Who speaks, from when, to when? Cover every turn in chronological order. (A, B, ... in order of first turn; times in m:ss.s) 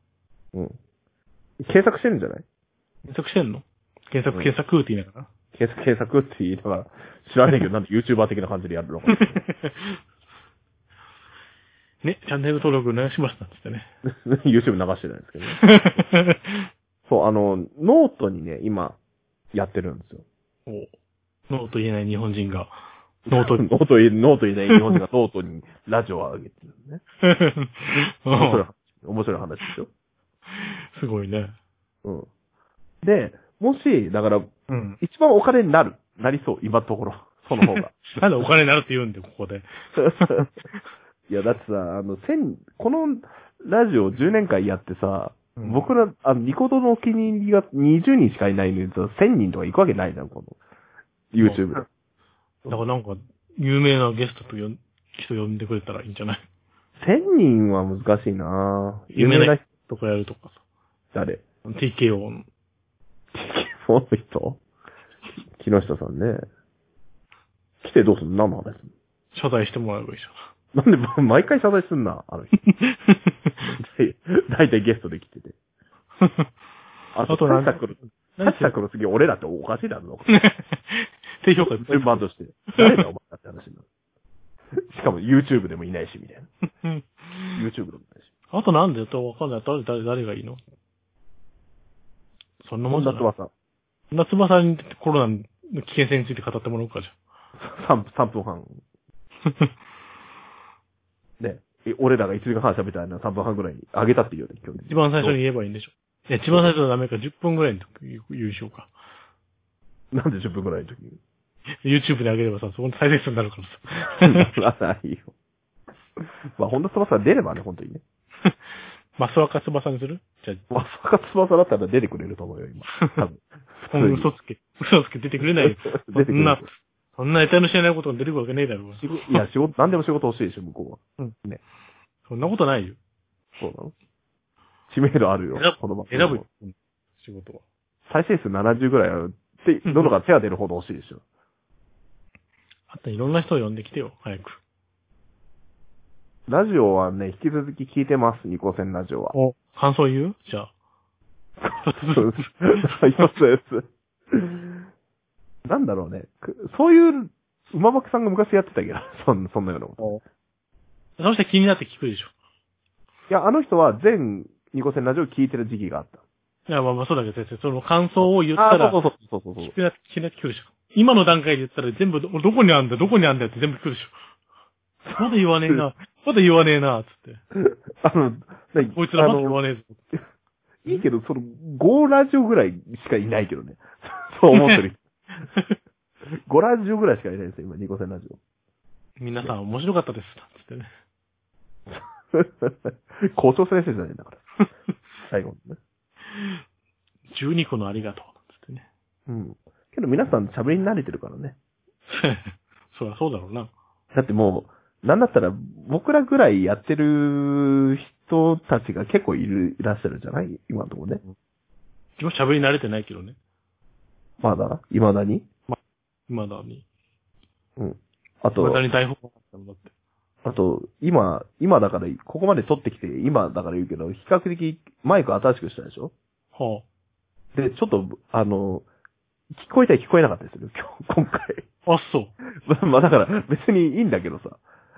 0:01.6-0:02.4 A
0:03.1-0:05.3 B
0:05.5-0:09.4 A
0:09.1-0:10.0 B
0:12.0-0:13.9 B
0:14.0-0:15.7 A
0:15.6-0:16.7 B
0:17.1-0:19.0 A
0:19.5-0:20.2 A
0:20.7-0:20.9 B
0:21.5-0:22.8 B
0:23.3-0:23.6 B
0:23.3-0:27.0 A
0:27.2-0:28.6 B
0:28.3-0:29.9 A
0:30.5-0:31.6 B
0:33.0-0:38.1 A
0:34.7-0:35.0 B
0:38.1-0:40.8 B
0:40.0-0:40.5 A
0:41.3-0:50.6 A
0:45.6-0:45.8 B
0:51.3-0:51.8 A
0:51.4-0:51.8 B
0:52.7-0:56.4 B
0:57.0-0:59.6 A
0:59.1-1:00.6 B
1:01.1-1:01.4 A
1:01.6-1:02.5 B
1:03.3-1:04.6 A
1:05.5-1:06.5 A
1:07.8-1:08.9 A
1:09.3-1:10.4 B
1:10.7-1:12.6 A
1:12.6-1:13.8 B
1:13.8-1:15.5 A
1:16.2-1:16.5 B
1:17.2-1:20.4 A
1:17.3-1:18.7 B
1:20.3-1:22.2 B
1:21.6-1:23.8 A
1:22.8-1:23.0 B
1:24.9-1:26.5 A
1:26.6-1:27.6 B
1:27.6-1:28.2 A
1:28.5-1:30.6 B
1:32.6-1:33.3 B
1:32.9-1:33.5 A
1:34.1-1:37.1 B
1:37.6-1:38.8 A
1:39.4-1:39.7 B
1:41.4-1:45.4 A
1:44.9-1:48.9 B
1:50.1-1:51.2 A
1:51.8-1:54.5 B
1:54.3-1:55.3 A
1:56.6-1:58.0 A
1:58.4-2:00.6 B
2:00.7-2:04.3 A
2:02.9-2:03.2 B
2:03.9-2:09.4 B
2:05.6-2:06.7 A
2:09.0-2:11.6 A
2:12.3-2:13.0 B
2:13.6-2:13.9 A
2:14.9-2:16.4 A
2:15.5-2:17.6 B
2:18.1-2:21.2 A
2:19.9-2:20.1 B
2:22.9-2:24.6 B
2:26.5-2:29.3 A
2:29.3-2:30.7 B
2:31.6-2:34.9 A
2:31.8-2:33.3 B
2:35.6-2:40.2 A
2:41.2-2:42.3 B
2:43.3-2:46.2 A
2:46.7-2:49.0 B
2:48.2-2:49.7 A
2:49.6-2:54.2 B
2:55.0-2:55.8 A
2:55.2-2:57.4 B
2:57.5-2:59.6 A
2:58.8-3:00.0 B
3:00.8-3:05.0 A
3:04.5-3:04.8 B
3:05.4-3:05.8 B
3:06.5-3:08.4 A
3:09.2-3:10.9 B
3:11.9-3:14.5 A
3:15.2-3:15.8 A
3:16.3-3:16.6 B
3:17.3-3:18.8 B
3:19.3-3:21.6 A
3:22.1-3:23.7 B
3:24.1-3:31.2 A
3:32.2-3:33.4 B
3:34.4-3:35.5 A
3:36.3-3:36.8 B
3:37.8-3:38.8 A
3:38.6-3:39.9 B
3:40.4-3:46.1 A
3:46.6-3:46.8 B
3:47.6-3:48.8 A
3:49.6-3:51.6 A
3:51.9-3:52.3 B
3:52.5-3:54.6 A